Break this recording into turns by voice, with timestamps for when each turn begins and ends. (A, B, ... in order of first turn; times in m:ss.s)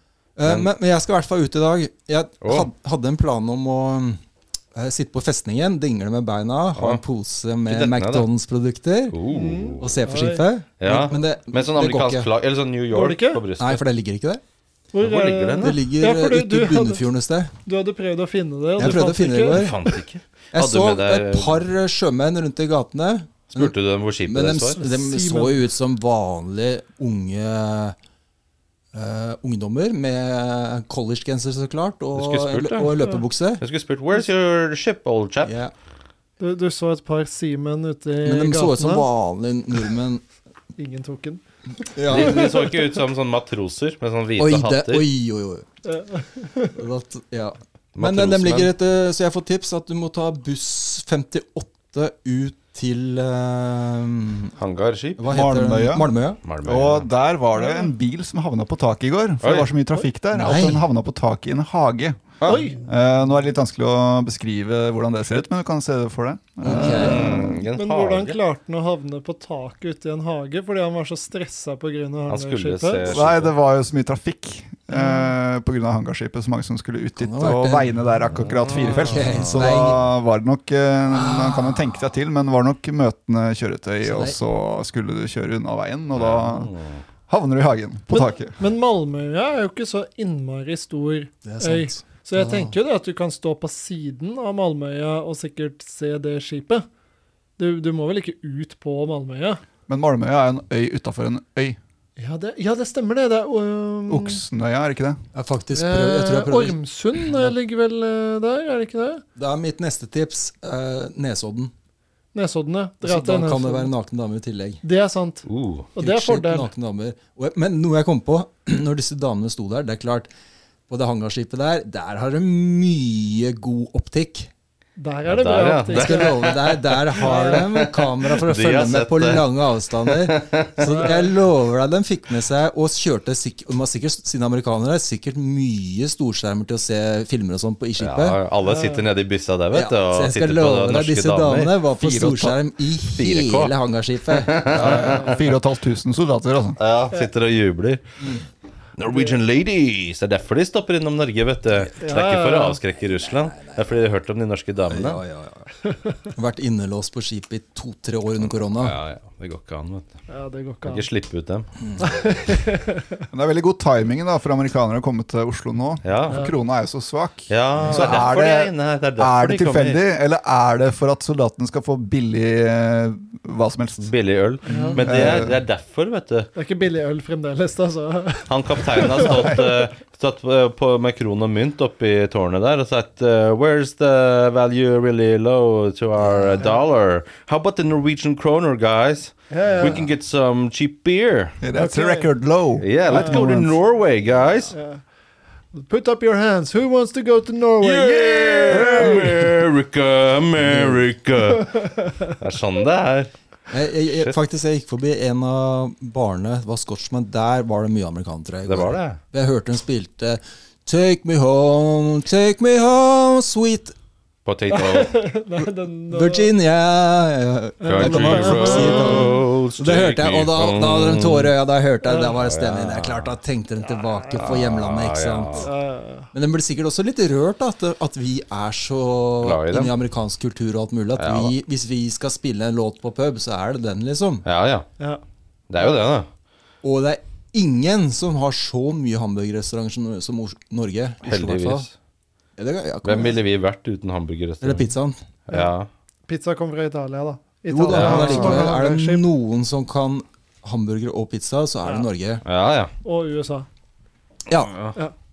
0:00.4-0:04.2 A
0:02.4-0:02.7 B
0:04.7-0:09.2 A
0:06.8-0:07.0 B
0:07.6-0:08.3 B
0:09.1-0:10.0 B
0:09.3-0:10.4 C
0:09.8-0:12.3 A
0:10.8-0:13.8 B
0:12.9-0:13.4 C
0:13.6-0:14.4 A
0:14.9-0:17.0 C
0:15.0-0:15.8 B
0:15.6-0:17.5 A
0:17.6-0:19.7 C
0:18.8-0:19.8 A
0:19.5-0:21.6 B
0:20.5-0:23.7 A
0:23.5-0:24.8 B
0:24.2-0:28.0 A
0:24.8-0:25.6 C
0:28.9-0:33.6 A
0:32.1-0:33.0 B
0:33.6-0:35.5 B
0:35.4-0:35.7 A
0:36.4-0:39.1 C
0:38.2-0:40.2 A
0:40.8-0:41.4 C
0:42.0-0:42.6 A
0:42.1-0:42.9 C
0:42.1-0:45.0 B
0:44.4-0:45.6 A
0:45.8-0:46.8 C
0:46.8-0:54.5 A
0:47.9-0:48.7 B
0:54.6-0:55.2 B
0:55.2-0:56.4 A
0:55.2-0:56.1 D
0:56.4-0:57.1 B
0:56.6-1:07.6 D
0:57.6-0:57.9 C
0:59.4-0:59.7 B
1:00.3-1:00.8 A
1:02.4-1:02.7 B
1:02.4-1:02.8 C
1:06.6-1:07.5 A
1:06.8-1:08.4 B
1:06.8-1:07.1 C
1:07.7-1:13.1 C
1:12.3-1:13.5 B
1:13.0-1:26.7 D
1:14.9-1:15.3 C
1:17.2-1:20.1 A
1:18.3-1:19.8 B
1:21.1-1:22.1 A
1:24.0-1:24.4 A
1:26.1-1:27.0 B
1:27.3-1:28.6 D
1:28.1-1:36.8 C
1:31.4-1:32.7 A
1:37.6-1:39.6 C
1:39.9-1:41.8 D
1:42.2-1:44.4 C
1:44.1-1:45.2 D
1:45.3-1:46.8 A
1:45.7-1:49.2 C
1:49.4-1:51.7 A
1:52.3-1:53.9 C
1:53.0-1:54.8 A
1:54.8-1:56.7 C
1:55.4-1:55.9 B
1:56.0-2:00.3 A
2:00.9-2:04.5 A
2:05.0-2:06.6 C
2:05.3-2:09.5 B
2:05.9-2:18.4 A
2:07.1-2:07.6 C
2:10.0-2:11.1 B
2:10.9-2:11.2 C
2:18.0-2:21.7 B
2:18.6-2:19.0 C
2:19.7-2:25.0 A
2:22.0-2:22.6 D
2:23.1-2:23.7 B
2:24.3-2:25.5 B
2:24.7-2:26.8 D
2:25.0-2:25.3 C
2:26.8-2:28.0 B
2:28.2-2:28.4 A
2:29.0-2:35.2 B
2:32.0-2:32.8 C
2:33.0-2:34.0 A
2:34.9-2:35.7 A
2:36.3-2:39.0 A
2:38.5-2:40.1 B
2:40.3-2:41.1 C
2:40.8-2:41.7 B
2:42.0-2:43.2 C
2:43.3-2:54.1 D
2:46.0-2:46.4 B
2:47.5-2:50.0 B
2:47.9-2:48.2 A
2:54.0-2:56.5 B
2:54.6-2:55.0 C
2:54.7-2:55.0 A
2:55.0-2:55.6 D
2:56.6-2:59.7 C
2:58.5-3:11.6 B
3:06.2-3:06.7 A
3:09.5-3:10.0 C
3:11.6-3:13.8 D
3:11.7-3:12.3 C
3:12.8-3:14.7 B
3:13.1-3:13.5 C
3:14.7-3:15.0 C
3:15.7-3:19.4 C
3:17.8-3:21.7 B
3:20.6-3:21.0 A
3:21.6-3:22.4 C
3:22.4-3:23.3 B
3:23.7-3:33.9 A
3:28.6-3:29.2 B
3:34.4-3:35.2 B
3:34.7-3:36.5 C
3:36.1-3:45.7 A
3:37.8-3:39.4 C
3:37.8-3:41.5 B
3:42.0-3:42.3 C
3:42.2-3:43.3 B
3:43.9-3:44.5 C
3:44.3-3:45.7 B
3:45.5-3:46.3 C
3:46.3-3:54.4 A
3:49.4-3:49.9 B
3:51.2-3:51.5 B
3:54.4-3:54.9 B
3:55.7-3:56.3 B
3:56.8-4:01.9 A
4:01.2-4:01.9 B
4:02.6-4:03.4 A
4:03.0-4:04.8 B
4:04.6-4:05.2 A
4:05.5-4:05.9 B
4:06.3-4:09.3 C
4:07.7-4:12.4 A
4:07.9-4:08.7 B
4:12.4-4:12.9 B
4:13.0-4:13.7 C
4:14.5-4:14.7 A
4:14.6-4:14.9 B